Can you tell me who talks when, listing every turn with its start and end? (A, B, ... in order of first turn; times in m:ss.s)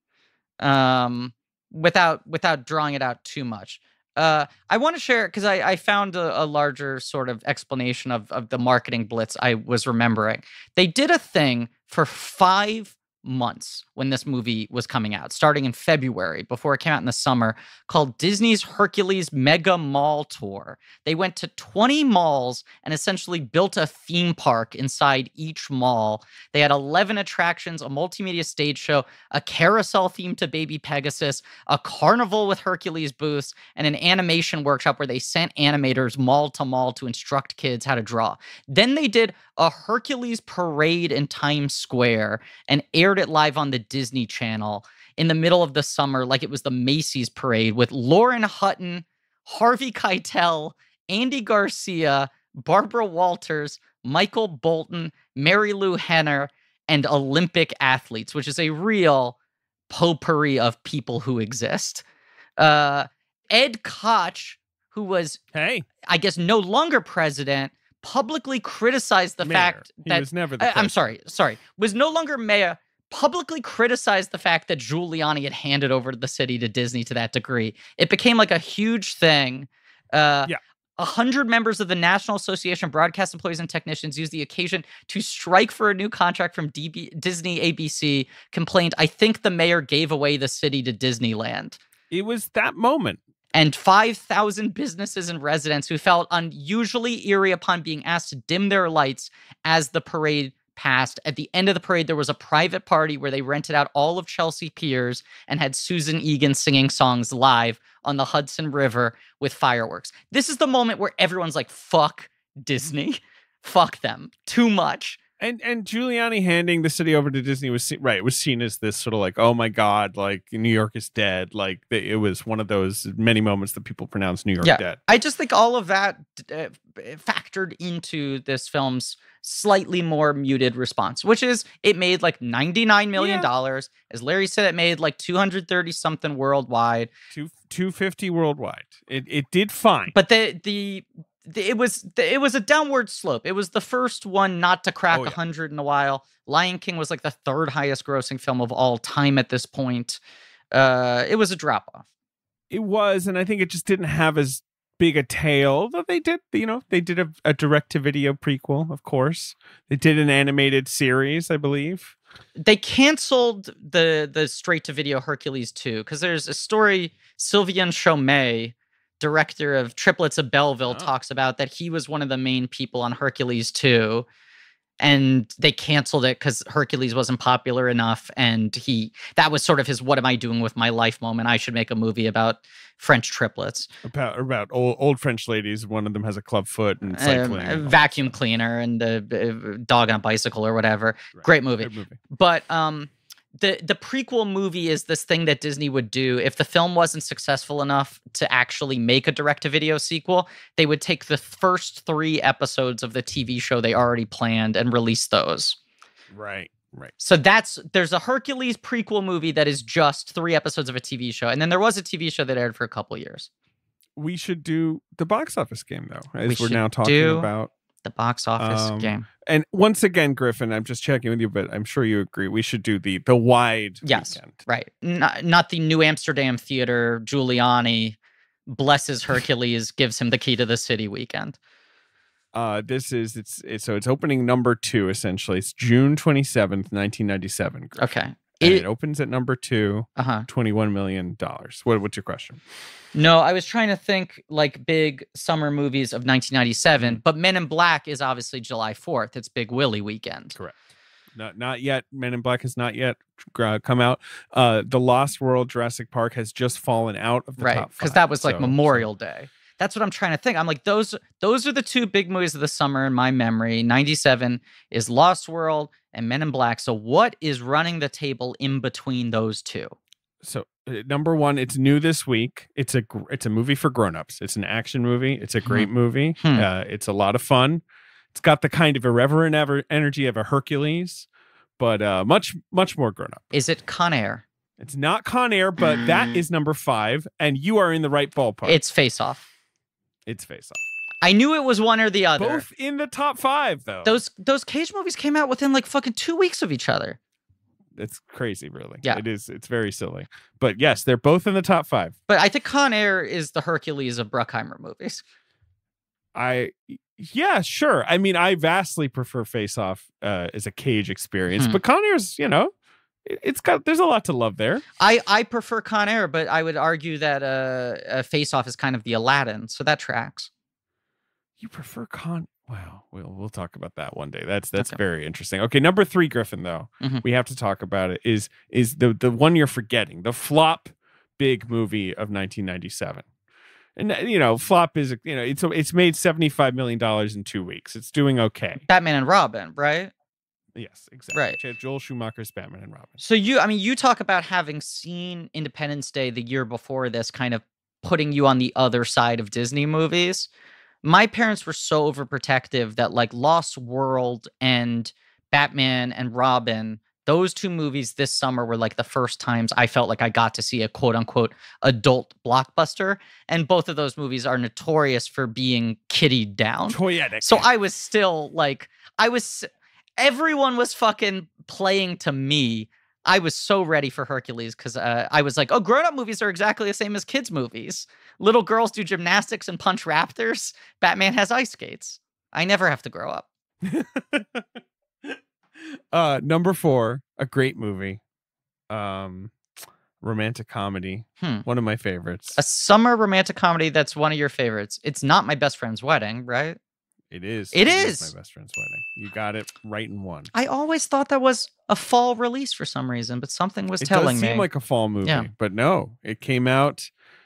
0:00.6-0:59.4 A
0:59.9-1:02.0 A
1:02.6-1:05.4 A
1:05.5-1:05.8 B
1:06.0-1:31.8 A
1:09.4-1:11.1 B
1:32.1-1:33.2 B
1:33.5-1:55.2 A
1:55.4-2:05.0 B
2:04.6-2:17.1 A
2:13.2-2:13.5 B
2:17.3-2:20.1 B
2:20.1-2:30.2 A
2:25.1-2:25.4 B
2:30.7-2:32.0 A
2:32.7-2:42.1 B
2:42.6-2:54.3 A
2:55.0-3:03.9 A
3:04.0-3:08.3 B
3:07.1-3:25.8 A
3:11.3-3:12.2 B
3:26.3-3:27.1 B
3:27.2-3:33.5 A
3:34.2-3:37.7 B
3:36.5-3:37.5 A
3:38.0-3:39.2 A
3:38.6-3:44.6 B
3:44.0-3:51.6 A
3:52.5-4:02.6 B
3:58.0-3:58.8 A
4:00.2-4:00.4 A
4:03.1-4:10.6 A
4:11.4-4:19.1 B
4:17.6-4:30.0 A
4:30.4-4:37.8 B
4:38.3-4:41.3 B
4:41.8-4:43.4 B
4:43.5-4:44.4 A
4:44.8-4:48.8 B
4:48.6-4:49.4 A
4:50.2-4:50.8 B
4:51.2-4:52.6 A
4:52.4-4:54.2 B
4:54.0-4:57.2 A
4:58.0-5:02.1 B
5:02.3-5:05.2 A
5:06.3-5:12.7 B
5:13.2-5:14.8 B
5:15.0-5:20.5 A
5:21.6-5:33.2 B
5:34.0-5:38.8 B
5:38.8-5:40.1 A
5:40.8-5:43.2 B
5:41.3-5:41.6 A
5:43.2-5:50.5 A
5:51.0-6:23.5 A
6:06.9-6:07.7 B
6:23.8-6:24.6 B
6:26.1-6:28.2 B
6:28.9-6:29.5 B
6:30.2-6:32.6 B
6:32.6-6:36.8 A
6:37.3-6:40.5 B
6:37.7-6:38.3 A
6:40.5-6:44.7 A
6:44.0-6:47.1 B